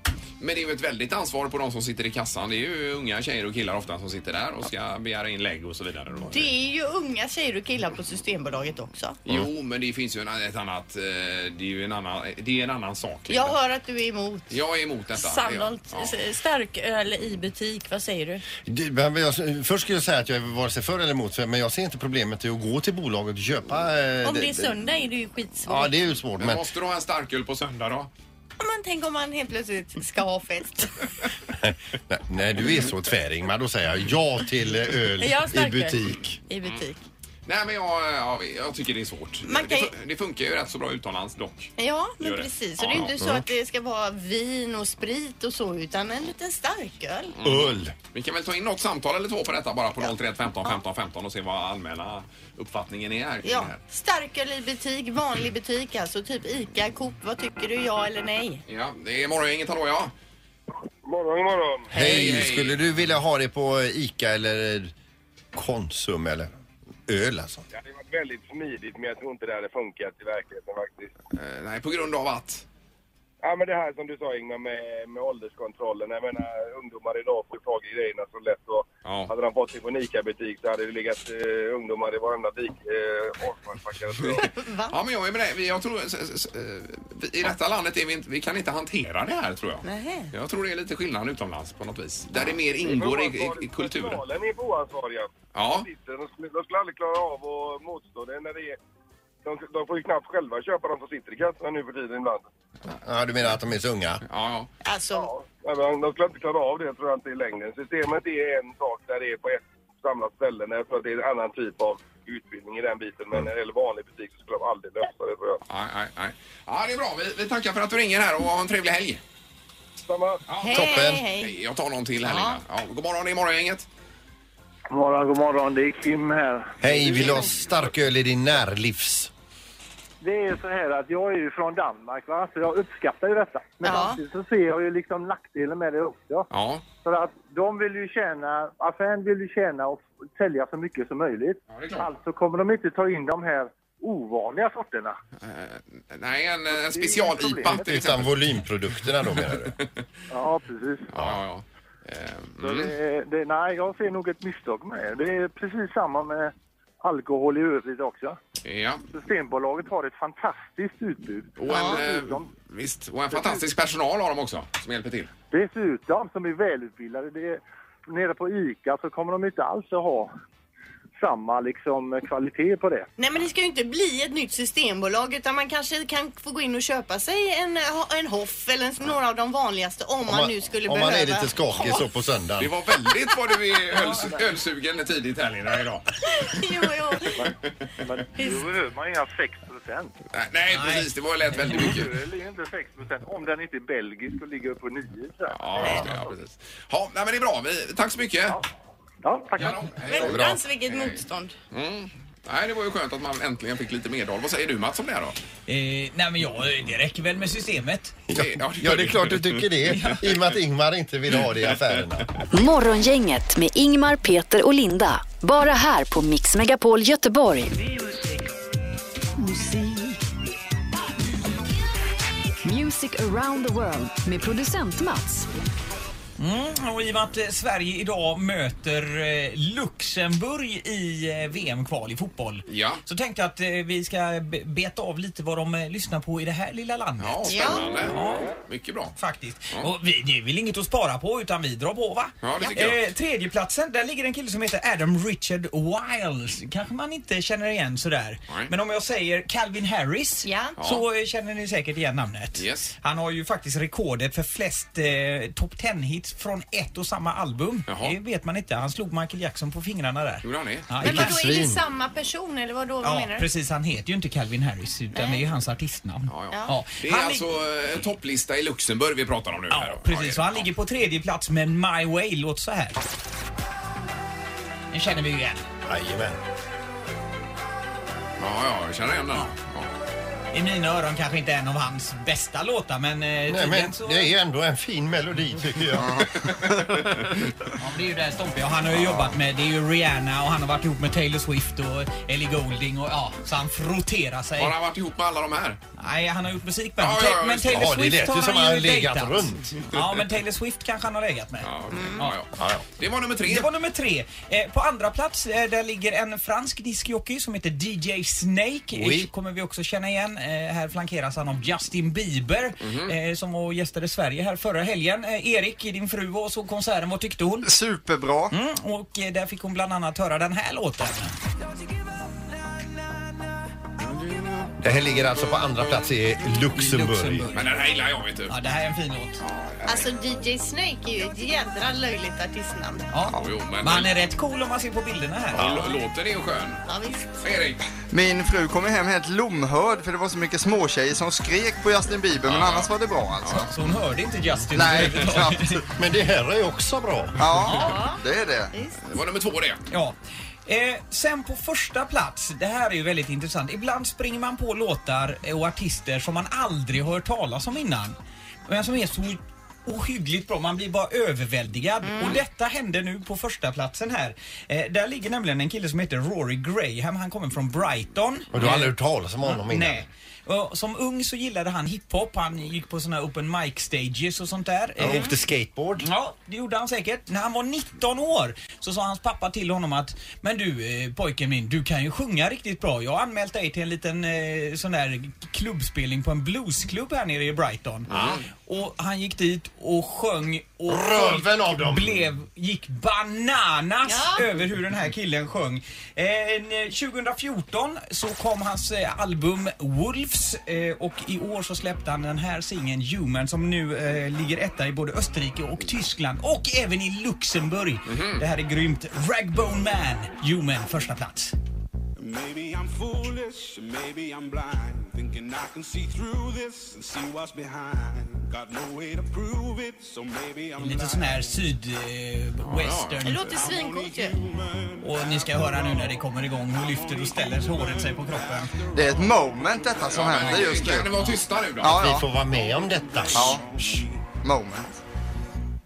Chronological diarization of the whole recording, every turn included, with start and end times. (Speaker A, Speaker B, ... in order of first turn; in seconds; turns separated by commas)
Speaker A: 0.4-6.5, Speaker B: 6.3-9.2, Speaker A: 9.2-13.6, Speaker B: 13.3-14.6, Speaker A: 14.5-16.1, Speaker B: 15.1-18.4, Speaker C: 18.6-24.7, Speaker B: 24.2-25.9, Speaker C: 25.7-26.6, Speaker A: 26.4-28.1, Speaker B: 28.6-30.9, Speaker C: 31.6-36.4, Speaker B: 35.2-37.0, Speaker A: 37.5-43.1, Speaker B: 39.4-39.9, Speaker B: 41.8-47.4, Speaker C: 43.2-43.4, Speaker A: 47.4-53.8, Speaker C: 47.4-47.9, Speaker B: 53.4-58.6, Speaker A: 58.7-60.1, Speaker D: 61.0-61.9, Speaker A: 61.9-62.8, Speaker C: 61.9-64.9, Speaker B: 62.0-62.4, Speaker C: 65.5-66.5, Speaker C: 67.1-67.7, Speaker D: 67.7-71.1, Speaker A: 71.3-72.7, Speaker D: 73.4-84.4, Speaker A: 79.0-79.3, Speaker A: 84.2-94.2, Speaker B: 84.3-85.0, Speaker B: 89.8-90.3, Speaker D: 92.7-98.8, Speaker A: 95.5-95.9, Speaker D: 99.4-102.5, Speaker C: 103.0-104.2, Speaker A: 104.2-104.7, Speaker B: 104.8-105.3, Speaker D: 105.2-115.6, Speaker A: 115.7-119.2, Speaker D: 120.0-120.4, Speaker A: 120.5-123.8, Speaker B: 120.6-121.5, Speaker C: 120.7-121.2, Speaker B: 122.2-122.6, Speaker E: 124.9-127.6, Speaker C: 126.8-129.3, Speaker E: 130.2-136.5, Speaker B: 133.8-134.2, Speaker A: 136.5-136.8, Speaker E: 137.0-145.2, Speaker A: 141.7-142.1, Speaker A: 145.4-148.6, Speaker E: 146.7-148.1, Speaker C: 147.7-149.8, Speaker A: 149.2-150.0, Speaker E: 150.3-151.1, Speaker A: 151.1-152.9, Speaker E: 152.6-158.4, Speaker A: 158.6-159.0, Speaker E: 159.1-162.5, Speaker A: 161.6-165.3, Speaker B: 161.7-162.0, Speaker E: 163.3-163.7, Speaker E: 165.5-170.3, Speaker E: 171.2-173.1, Speaker B: 173.2-182.0, Speaker C: 180.2-182.7, Speaker A: 182.6-186.6, Speaker F: 184.0-184.2, Speaker E: 184.2-184.5, Speaker B: 186.3-187.5, Speaker E: 187.3-190.1, Speaker A: 190.3-192.1, Speaker F: 190.7-192.0, Speaker E: 191.6-196.3, Speaker A: 195.5-198.6, Speaker B: 195.8-196.1, Speaker E: 199.2-200.0, Speaker A: 199.6-205.4, Speaker B: 200.1-201.5, Speaker C: 200.2-200.6, Speaker F: 205.7-208.2, Speaker C: 208.3-212.3, Speaker A: 208.3-210.4, Speaker A: 211.7-212.0, Speaker G: 212.5-217.7, Speaker G: 219.4-220.2, Speaker G: 222.6-225.5, Speaker F: 226.4-238.5, Speaker A: 232.7-233.0, Speaker A: 237.2-239.1, Speaker B: 237.5-237.8, Speaker F: 239.2-261.4, Speaker A: 242.4-243.1, Speaker B: 250.4-250.8, Speaker A: 250.8-251.0, Speaker A: 252.6-252.9, Speaker A: 257.9-258.1, Speaker A: 260.4-260.9, Speaker B: 261.0-263.5, Speaker C: 261.0-261.8, Speaker F: 263.0-267.4, Speaker B: 265.1-265.4, Speaker A: 266.3-270.7, Speaker F: 269.7-273.0, Speaker F: 274.9-275.6, Speaker C: 275.9-276.4, Speaker A: 278.4-279.9, Speaker F: 280.5-284.3, Speaker C: 283.5-286.3, Speaker A: 286.8-287.2, Speaker F: 287.8-294.7, Speaker A: 294.6-295.8, Speaker F: 296.0-302.4, Speaker A: 297.0-298.0, Speaker C: 297.7-299.6, Speaker A: 301.6-303.7, Speaker B: 301.9-302.3, Speaker C: 302.6-302.8, Speaker F: 303.4-317.7, Speaker C: 308.9-309.3, Speaker A: 312.8-313.1, Speaker H: 317.6-318.6, Speaker F: 318.5-321.3, Speaker A: 324.3-324.7, Speaker C: 324.8-327.5, Speaker A: 325.3-326.1, Speaker F: 326.8-327.8, Speaker A: 327.5-328.6, Speaker F: 328.5-329.4, Speaker A: 329.4-330.1, Speaker B: 329.8-333.1, Speaker F: 333.1-335.9, Speaker A: 333.3-334.1, Speaker C: 335.5-335.8, Speaker A: 335.6-336.8, Speaker B: 336.9-337.5, Speaker A: 337.4-337.8, Speaker H: 338.1-343.7, Speaker A: 342.4-343.7, Speaker F: 343.6-345.8, Speaker H: 344.7-345.8, Speaker A: 344.9-345.2, Speaker C: 346.0-347.4, Speaker H: 347.4-348.7, Speaker F: 347.7-348.0, Speaker B: 347.7-349.0, Speaker A: 349.0-349.8, Speaker F: 349.9-358.1, Speaker F: 358.7-375.4, Speaker B: 362.0-362.4, Speaker C: 368.5-370.1, Speaker C: 375.0-376.1, Speaker F: 376.0-388.1, Speaker A: 388.1-388.4, Speaker C: 388.1-388.4, Speaker F: 388.6-411.5, Speaker C: 390.9-392.2, Speaker B: 394.1-394.5, Speaker A: 408.1-408.4, Speaker I: 412.2-421.6, Speaker F: 420.8-423.4, Speaker A: 422.6-423.5, Speaker B: 423.2-424.4, Speaker I: 423.3-431.4, Speaker F: 425.0-428.8, Speaker H: 428.9-431.1, Speaker A: 430.1-432.1, Speaker H: 431.8-432.3, Speaker C: 431.9-433.6, Speaker I: 432.5-434.3, Speaker H: 433.3-433.6, Speaker H: 434.4-434.9